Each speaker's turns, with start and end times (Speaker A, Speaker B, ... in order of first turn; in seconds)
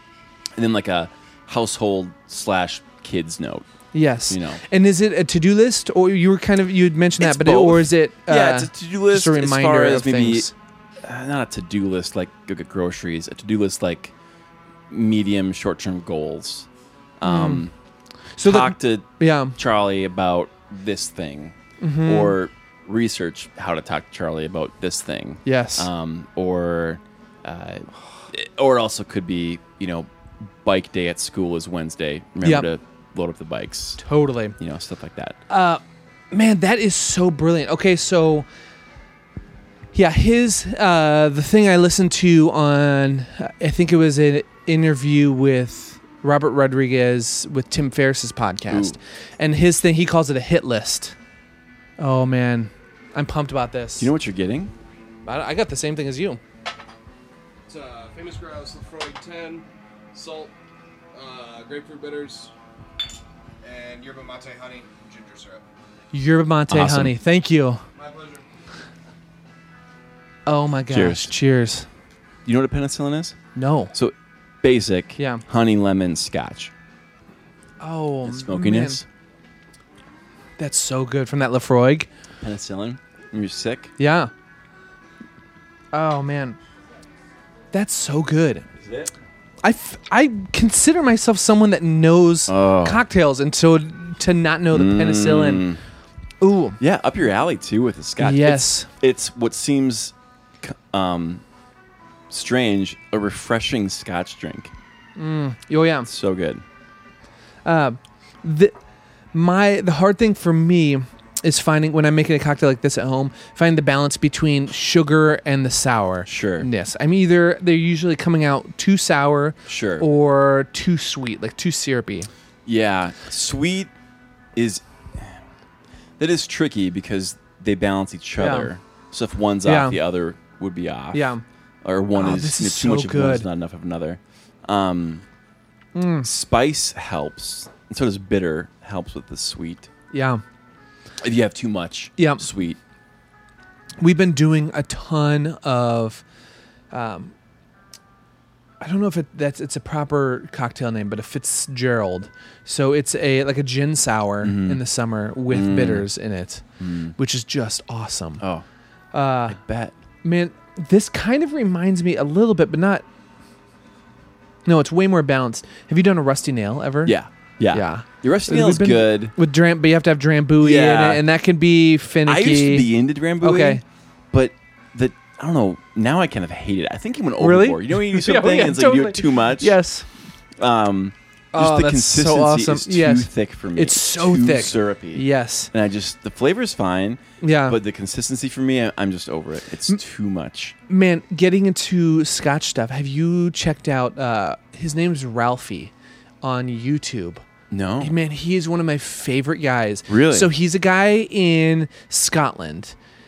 Speaker A: 0.6-3.7, 4.3-4.6, 7.2-14.1, 14.9-16.7, 17.2-17.7, 18.4-34.0, 34.6-35.4, 48.7-49.0, 54.0-54.7, 66.7-67.2, 70.9-71.3, 72.4-73.4, 73.9-76.7, 78.2-79.0, 82.4-83.9, 88.8-89.1, 92.5-93.0, 94.7-95.8, 96.8-101.4, 102.3-104.7, 106.0-106.6, 116.2-116.7, 119.7-120.1, 122.7-123.9, 124.5-125.4, 126.2-131.3, 131.8-135.2, 136.2-139.9, 141.2-142.8, 154.4-154.8, 155.5-156.1, 156.8-157.2, 158.4-158.7, 159.4-159.9, 167.0-169.3, 170.6-171.2, 172.2-179.8, 180.6-190.8, 197.7-198.2, 200.1-200.5
Speaker B: 3.9-10.5, 17.2-17.6, 18.4-19.6, 21.8-22.4, 25.4-25.9, 32.4-32.7, 34.0-34.5, 35.5-38.5, 39.9-51.1, 52.0-54.1, 55.2-56.4, 66.1-67.8, 70.5-71.8, 73.5-73.9, 75.2-75.4, 77.8-79.0, 80.6-82.1, 84.0-84.3, 85.9-86.6, 87.7-88.7, 89.6-95.7, 96.4-96.8, 98.2-98.9, 105.2-106.1, 107.6-108.7, 109.3-122.3, 128.4-128.7, 129.6-130.0, 131.1-131.4, 132.1-133.5, 135.9-136.3, 140.1-140.4, 142.2-142.4, 144.0-146.2, 146.9-147.3, 148.8-156.6, 157.2-158.4, 159.1-159.6, 160.2-163.0, 164.7-167.2, 167.7-172.9, 173.4-173.8, 177.4-180.1, 181.5-185.7, 187.4-187.8, 190.9-195.9, 196.4-197.4, 198.0-202.9
Speaker C: 57.7-60.5, 61.1-62.5, 63.6-65.7, 68.0-68.5